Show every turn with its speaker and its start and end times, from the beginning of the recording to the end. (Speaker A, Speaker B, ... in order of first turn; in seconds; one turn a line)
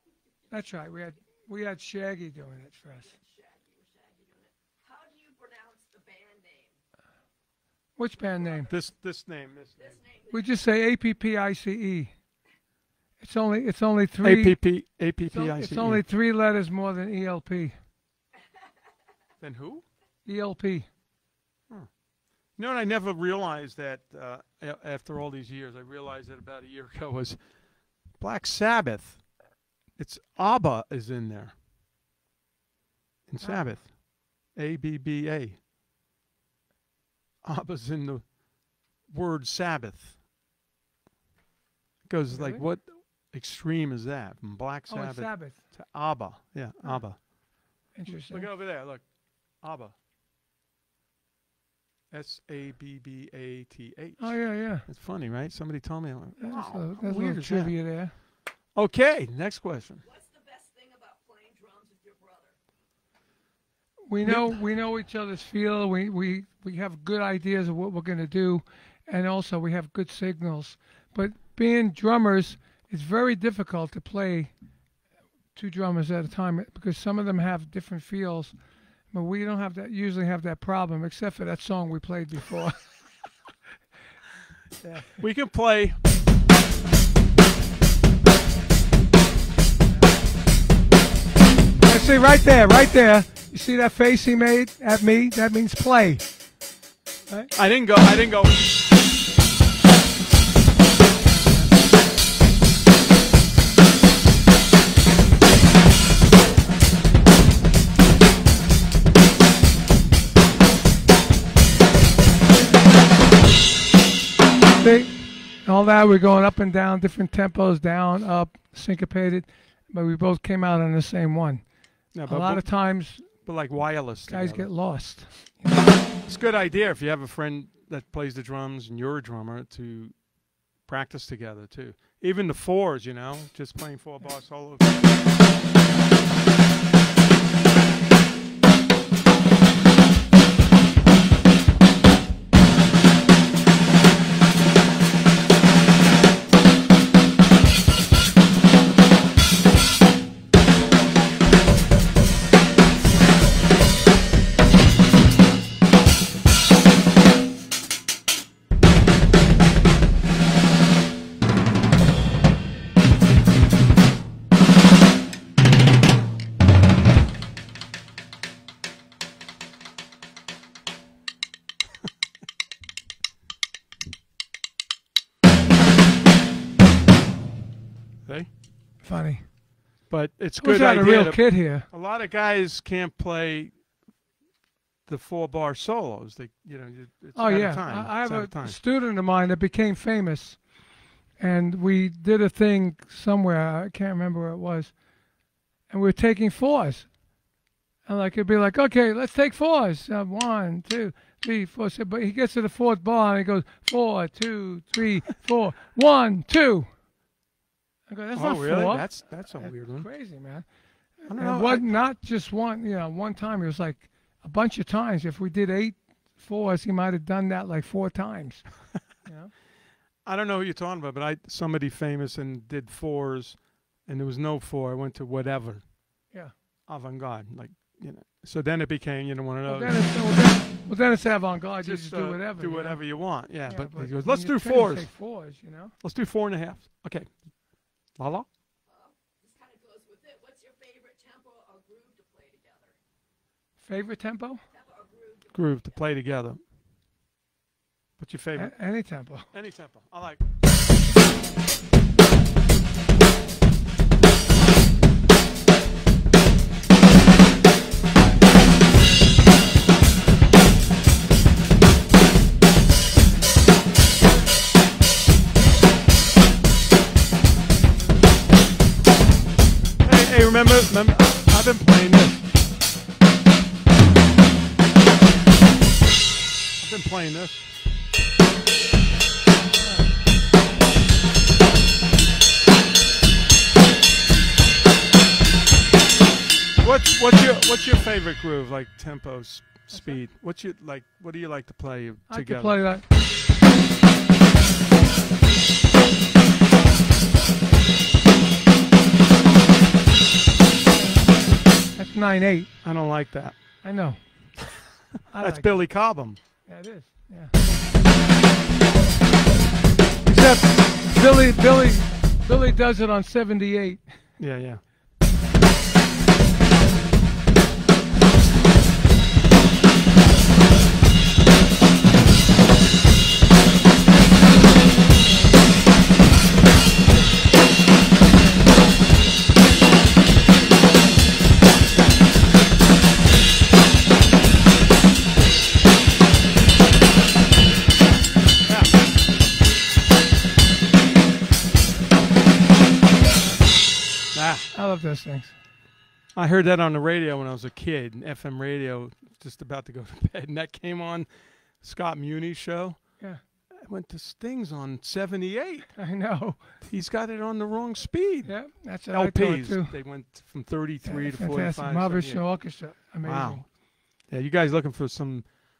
Speaker A: 0.5-3.1
Speaker B: 3.1-6.7
Speaker A: 8.0-8.7
Speaker C: 8.7-10.0
Speaker B: 9.8-10.4
Speaker A: 10.3-12.1
Speaker A: 13.2-14.6
Speaker C: 14.2-16.0
Speaker A: 15.3-17.8
Speaker C: 19.4-19.8
Speaker A: 20.2-20.9
Speaker C: 22.6-27.4
Speaker C: 28.2-29.2
Speaker C: 30.0-31.5
Speaker C: 33.3-34.0
Speaker A: 33.4-33.8
Speaker C: 34.5-35.6
Speaker C: 37.4-38.4
Speaker C: 39.1-40.2
Speaker C: 42.0-47.2
Speaker A: 42.3-42.6
Speaker A: 44.9-45.6
Speaker A: 47.9-48.5
Speaker C: 48.1-49.0
Speaker C: 49.5-49.9
Speaker C: 52.1-57.8
Speaker A: 54.2-54.9
Speaker A: 56.4-58.1
Speaker C: 58.7-60.0
Speaker B: 60.0-62.5
Speaker A: 64.1-74.5
Speaker C: 64.2-64.6
Speaker A: 75.5-78.5
Speaker A: 79.1-82.8
Speaker A: 84.8-85.2
Speaker C: 85.2-86.0
Speaker A: 91.8-96.2
Speaker C: 97.5-98.8
Speaker A: 114.8-121.6
Speaker C: 122.1-122.7
Speaker A: 122.2-123.3
Speaker C: 123.3-124.7
Speaker A: 124.3-125.9
Speaker C: 126.2-130.2
Speaker C: 130.8-135.2
Speaker A: 179.0-179.5
Speaker C: 180.1-183.7
Speaker A: 180.6-181.9
Speaker C: 185.1-188.8
Speaker A: 187.3-190.6
Speaker A: 191.4-194.9
Speaker A: 195.9-197.1
Speaker A: 198.1-206.9
Speaker A: 208.1-210.7
Speaker C: 208.3-210.1
Speaker A: 211.2-218.7
Speaker C: 211.3-211.8
Speaker A: 219.2-219.5
Speaker C: 220.2-225.8
Speaker C: 226.9-230.0
Speaker A: 229.7-233.0
Speaker C: 231.8-235.1
Speaker A: 233.6-235.9
Speaker C: 236.0-237.4
Speaker C: 238.2-238.5
Speaker B: 238.9-242.9
Speaker A: 243.8-244.6
Speaker B: 244.7-246.0
Speaker C: 245.5-246.6
Speaker C: 248.2-248.7
Speaker A: 248.5-249.5
Speaker C: 249.5-250.4
Speaker C: 270.0-272.4
Speaker C: 276.8-277.7
Speaker C: 286.8-292.8
Speaker A: 292.3-293.0
Speaker A: 300.9-302.7
Speaker C: 302.8-303.6
Speaker A: 303.8-304.2
Speaker A: 305.3-305.8
Speaker C: 305.4-306.4
Speaker A: 306.6-307.5
Speaker A: 310.2-314.0
Speaker C: 314.4-314.8
Speaker C: 338.6-338.9
Speaker C: 344.3-344.6
Speaker A: 344.7-345.5
Speaker C: 346.3-351.3
Speaker C: 351.8-353.2
Speaker C: 353.8-356.0
Speaker A: 355.9-356.7
Speaker C: 356.8-362.6
Speaker A: 358.4-359.9
Speaker A: 361.0-363.6
Speaker C: 363.2-363.7
Speaker C: 364.3-365.6